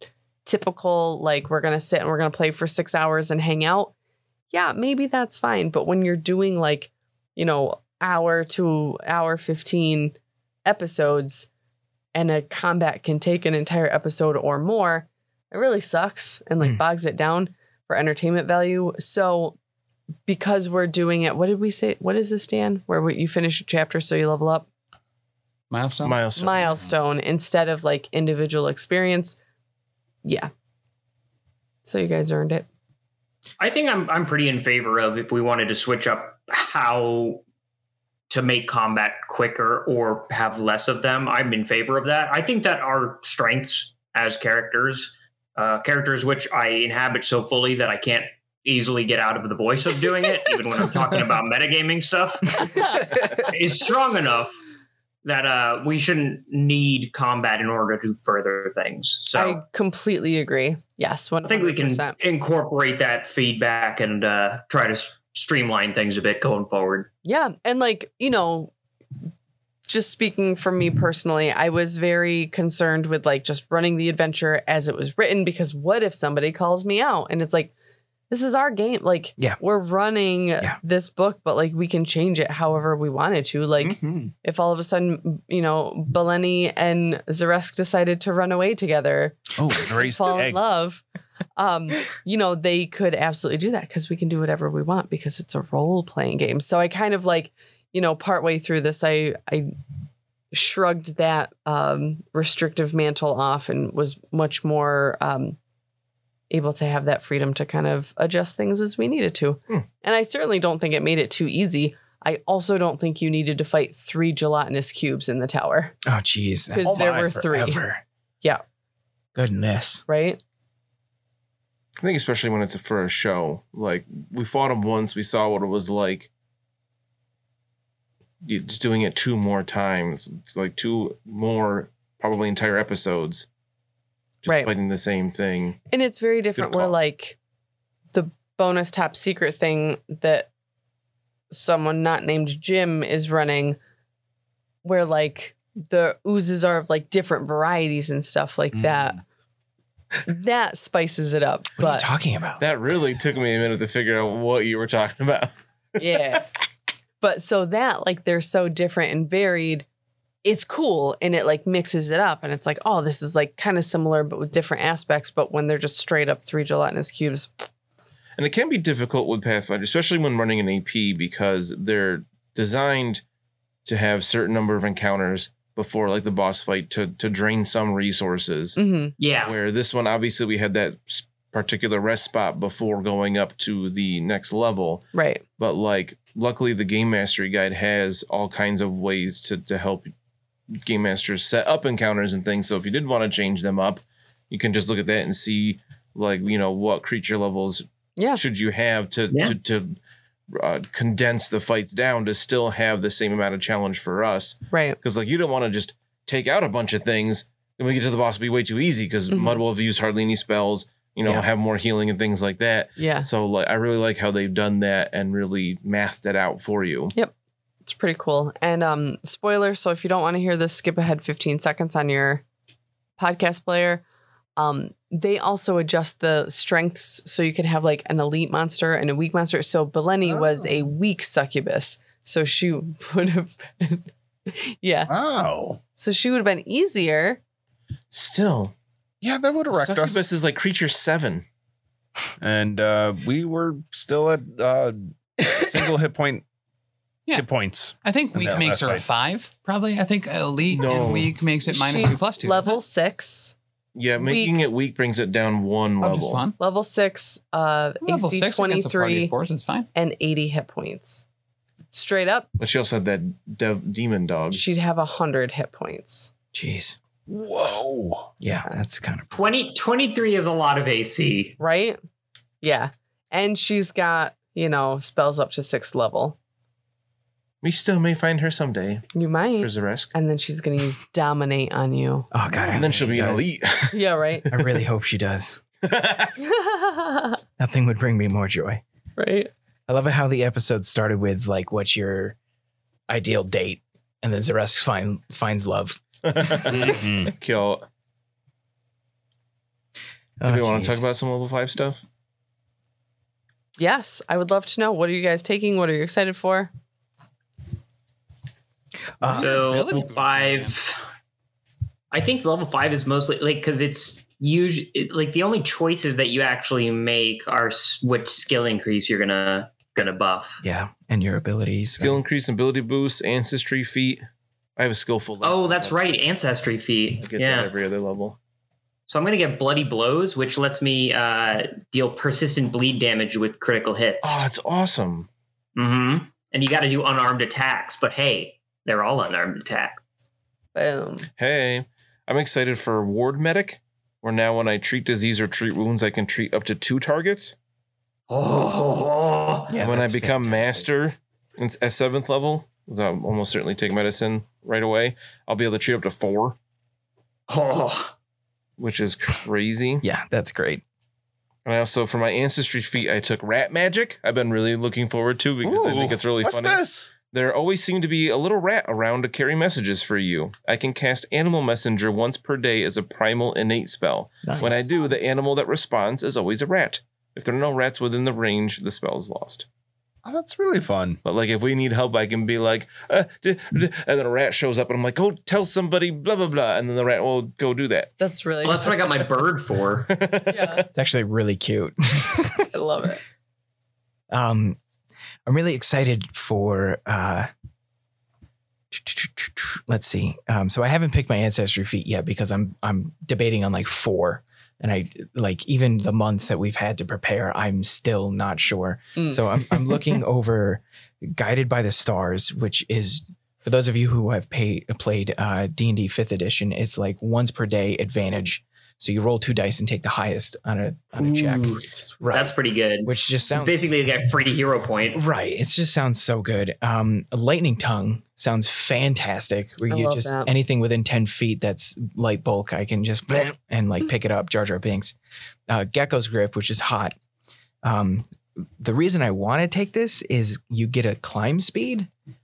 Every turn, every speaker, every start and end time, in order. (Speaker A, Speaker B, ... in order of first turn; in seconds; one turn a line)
Speaker A: 0.4-3.9
Speaker A: 4.5-11.5
Speaker A: 12.1-19.6
Speaker A: 20.3-24.6
Speaker B: 25.7-26.2
Speaker C: 26.0-26.8
Speaker A: 26.4-29.4
Speaker A: 30.2-30.5
Speaker A: 31.8-32.7
Speaker D: 33.6-37.4
Speaker D: 38.3-54.6
Speaker D: 55.2-59.6
Speaker A: 59.3-62.2
Speaker D: 61.4-67.1
Speaker A: 67.2-68.7
Speaker A: 69.9-77.7
Speaker A: 78.3-91.0
Speaker E: 83.8-84.3
Speaker E: 89.6-90.7
Speaker A: 91.6-99.7
Speaker A: 100.5-105.6
Speaker A: 106.5-115.9
Speaker F: 116.0-118.0
Speaker A: 116.7-117.8
Speaker E: 116.8-117.4
Speaker F: 119.3-120.0
Speaker A: 120.1-120.4
Speaker C: 122.0-126.3
Speaker C: 128.4-133.4
Speaker C: 134.4-135.8
Speaker A: 134.4-134.7
Speaker A: 135.9-137.4
Speaker C: 136.6-136.9
Speaker A: 138.1-140.5
Speaker A: 141.5-143.8
Speaker A: 144.8-149.2
Speaker E: 148.8-149.0
Speaker A: 150.2-152.1
Speaker F: 151.8-152.6
Speaker C: 152.6-155.5
Speaker A: 156.0-156.5
Speaker A: 157.2-159.8
Speaker A: 160.4-167.5
Speaker C: 168.4-173.2
Speaker C: 173.8-178.8
Speaker A: 178.8-179.1
Speaker D: 179.2-179.5
Speaker C: 179.4-185.1
Speaker A: 185.1-185.4
Speaker C: 185.6-190.1
Speaker C: 190.8-200.0
Speaker C: 200.5-217.1
Speaker A: 204.7-205.0
Speaker A: 209.3-209.6
Speaker A: 213.0-213.3
Speaker A: 217.8-222.4
Speaker A: 223.2-224.0
Speaker A: 224.6-235.1
Speaker E: 230.2-230.8
Speaker E: 235.1-235.8
Speaker A: 236.0-237.4
Speaker C: 238.1-238.7
Speaker E: 239.2-240.2
Speaker C: 239.7-241.4
Speaker E: 242.4-246.4
Speaker E: 247.3-249.1
Speaker B: 248.0-252.8
Speaker C: 250.7-251.4
Speaker A: 251.7-253.5
Speaker C: 253.9-256.5
Speaker A: 254.2-254.6
Speaker B: 256.0-256.6
Speaker A: 256.6-259.3
Speaker B: 258.0-259.9
Speaker A: 259.9-261.2
Speaker A: 261.9-262.5
Speaker C: 262.6-264.6
Speaker A: 264.5-266.3
Speaker F: 266.5-267.0
Speaker E: 267.3-268.3
Speaker F: 268.4-269.3
Speaker D: 269.3-271.6
Speaker A: 271.6-272.0
Speaker A: 272.6-276.4
Speaker C: 277.6-279.1
Speaker A: 279.1-282.3
Speaker C: 279.6-280.1
Speaker F: 282.3-283.5
Speaker C: 282.6-284.7
Speaker A: 283.9-284.5
Speaker F: 284.5-285.6
Speaker C: 285.8-286.3
Speaker A: 286.4-287.4
Speaker F: 287.6-288.8
Speaker A: 289.2-289.5
Speaker F: 289.9-292.4
Speaker F: 293.1-296.9
Speaker C: 296.2-297.9
Speaker E: 296.7-297.3
Speaker F: 300.4-301.0
Speaker C: 300.4-302.0
Speaker A: 303.8-306.7
Speaker F: 309.2-309.6
Speaker B: 309.2-310.8
Speaker D: 309.2-311.0
Speaker D: 312.1-320.6
Speaker F: 320.6-322.2
Speaker C: 321.9-324.2
Speaker C: 324.8-326.2
Speaker D: 325.4-327.7
Speaker C: 327.2-328.4
Speaker D: 329.1-334.4
Speaker C: 334.2-335.3
Speaker D: 335.8-340.0
Speaker A: 340.7-341.2
Speaker C: 341.4-347.5
Speaker D: 348.3-349.8
Speaker F: 349.7-350.9
Speaker C: 349.7-356.6
Speaker D: 357.5-358.1
Speaker C: 358.8-360.0
Speaker F: 360.0-360.8
Speaker C: 361.6-379.6
Speaker E: 365.6-367.1
Speaker F: 374.4-374.8
Speaker E: 380.2-381.2
Speaker C: 381.2-388.1
Speaker A: 388.2-389.2
Speaker D: 388.6-390.1
Speaker C: 390.1-390.9
Speaker A: 390.5-390.9
Speaker F: 390.9-392.7
Speaker A: 392.7-393.2
Speaker F: 394.3-394.8
Speaker F: 395.4-397.5
Speaker F: 398.9-422.5
Speaker A: 409.1-409.4
Speaker D: 421.2-425.2
Speaker F: 423.0-423.9
Speaker F: 425.1-435.1
Speaker A: 429.9-430.5
Speaker F: 435.7-437.1
Speaker F: 437.8-442.1